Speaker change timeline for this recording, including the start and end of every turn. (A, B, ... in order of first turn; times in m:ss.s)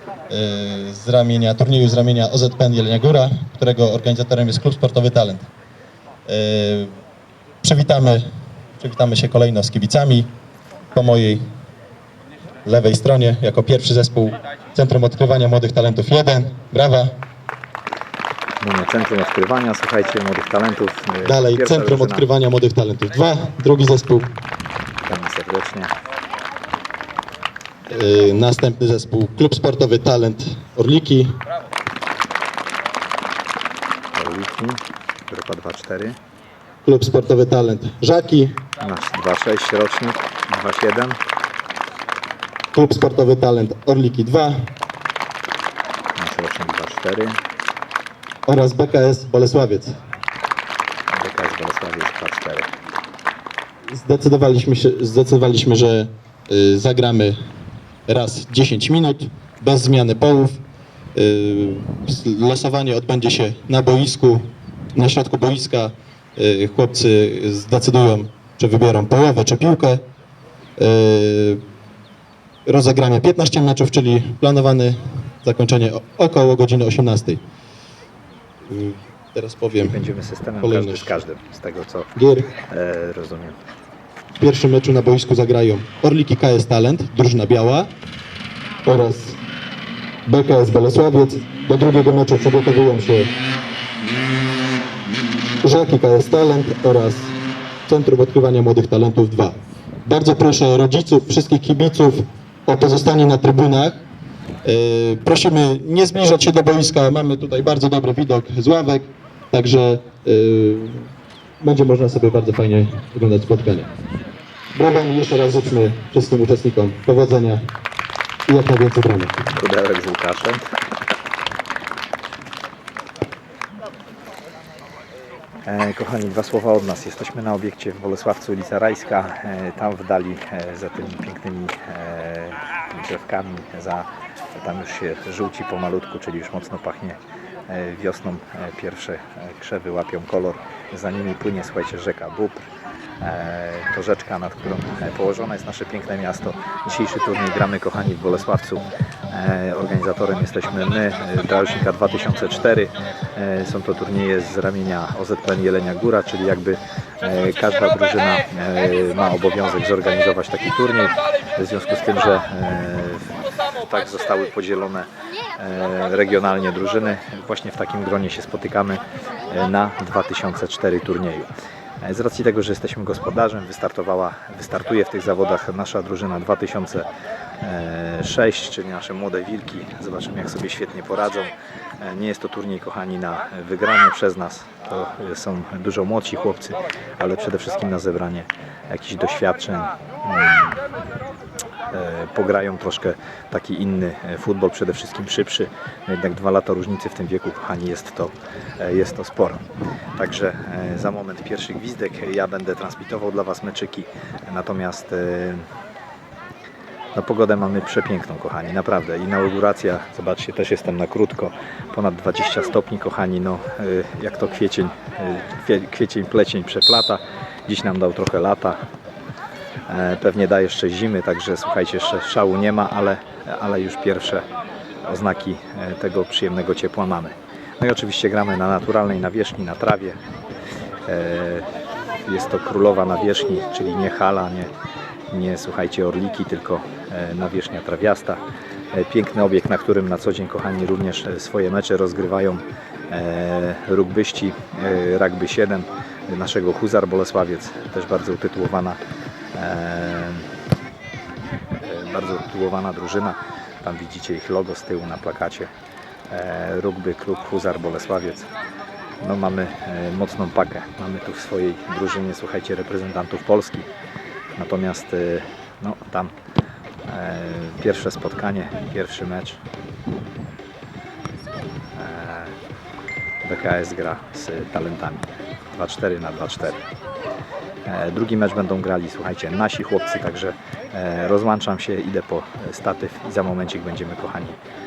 0:00.3-0:05.5 A
0:06.3-0:06.9 A
0:07.6-0:08.2 A
0:08.8-0:10.3 A
0:10.9-0:11.4 A
0:12.6-0:17.1 A
0:18.6-0:22.2 B
0:21.2-0:24.3 A
0:25.0-0:25.9 B
0:27.9-0:31.4 A
0:34.1-0:36.2 B
0:36.8-0:38.6 A
0:38.8-0:41.2 B
0:42.7-0:44.6 A
0:46.2-0:47.4 B
0:48.4-0:50.0 A
0:51.1-0:52.7 B
0:53.9-0:57.3 A
0:58.1-1:00.6 A
1:01.1-1:10.0 A
1:10.8-1:11.6 A
1:12.6-1:17.4 A
1:18.7-1:20.0 A
1:19.8-1:23.6 B
1:20.6-1:21.2 A
1:22.2-1:22.5 A
1:24.4-1:27.9 A
1:28.8-1:29.4 A
1:30.3-1:33.3 A
1:35.6-1:37.3 A
1:37.8-1:44.0 A
1:44.6-1:51.1 A
1:51.6-1:53.9 A
1:54.7-1:57.6 A
1:58.5-1:59.5 A
1:59.5-2:00.6 B
2:05.6-2:22.6 B
2:23.2-2:51.5 B
2:52.0-2:57.1 B
2:57.6-3:10.8 B
3:11.9-3:19.6 B
3:20.2-3:25.6 B
3:27.1-3:38.8 B
3:39.9-3:44.4 B
3:45.0-3:50.2 B
3:51.0-3:51.7 B
3:52.2-3:54.7 B
3:55.3-3:58.4 B
3:58.9-4:09.0 B
4:09.5-4:10.5 B
4:11.8-4:15.7 B
4:16.3-4:18.5 B
4:19.2-4:23.9 B
4:24.6-4:26.3 B
4:27.1-4:29.6 B
4:32.0-4:32.5 B
4:33.4-4:36.8 B
4:37.8-4:44.6 B